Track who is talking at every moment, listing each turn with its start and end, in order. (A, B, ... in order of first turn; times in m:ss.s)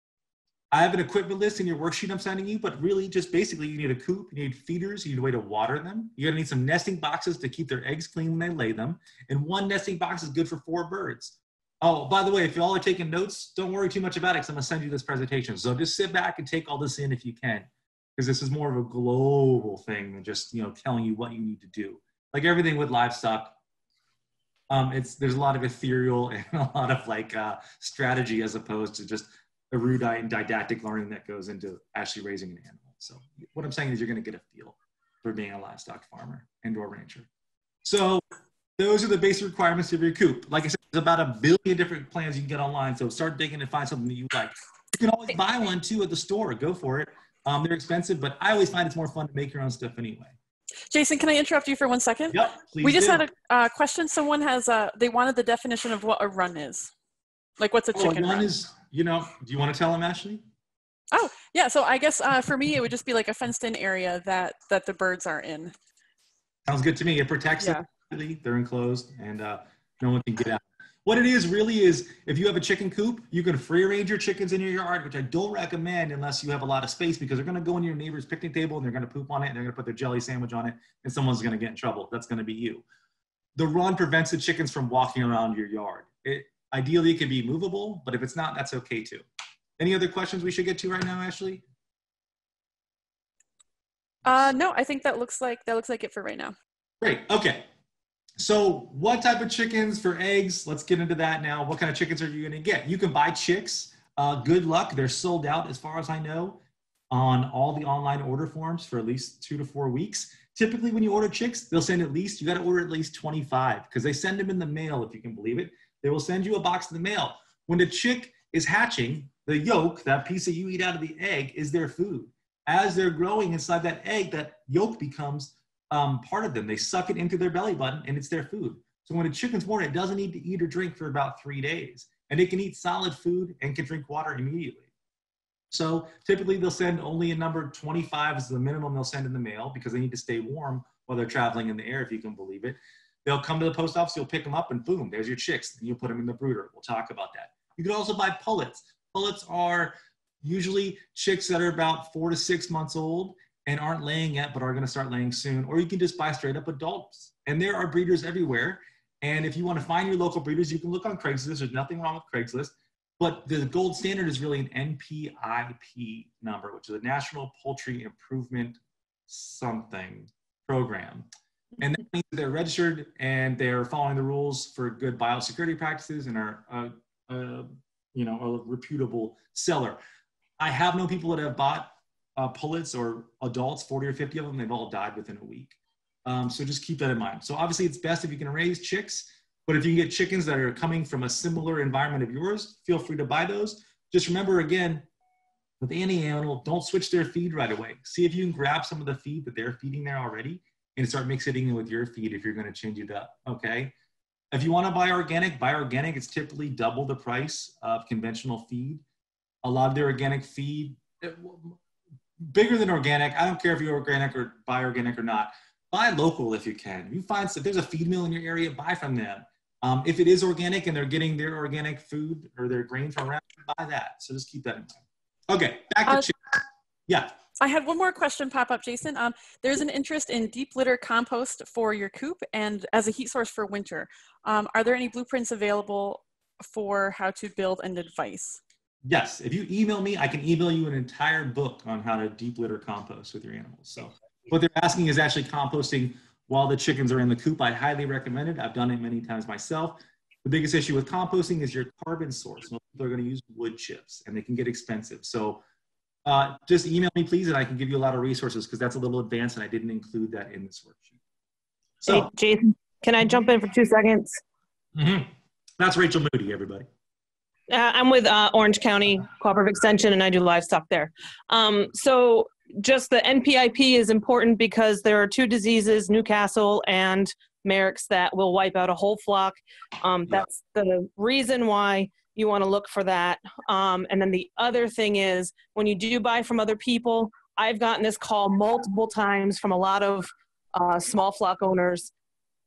0:00.7-0:23.6 A
0:24.7-0:37.3 A
0:37.8-0:38.2 A
0:38.8-0:50.4 A
0:50.9-0:56.9 B
0:52.3-0:53.2 A
0:57.6-0:58.5 B
0:57.9-1:00.4 A
1:01.1-1:05.7 B
1:06.7-1:22.8 A
1:23.6-1:29.2 A
1:29.8-1:31.6 A
1:34.2-1:36.5 B
1:37.0-1:37.7 A
1:38.4-1:46.6 A
1:47.1-2:14.9 A
2:15.7-2:51.3 A
2:51.8-3:00.0 A
3:00.6-3:15.0 A
3:15.8-3:23.9 A
3:24.5-3:29.0 A
3:29.6-3:31.8 A
3:32.4-3:46.4 A
3:47.1-3:47.3 A
3:47.6-3:58.6 B
3:59.0-4:15.6 A
4:16.2-4:21.1 A
4:22.0-4:22.3 A
4:22.1-4:24.4 C
4:25.0-4:26.9 A
4:27.7-4:52.1 C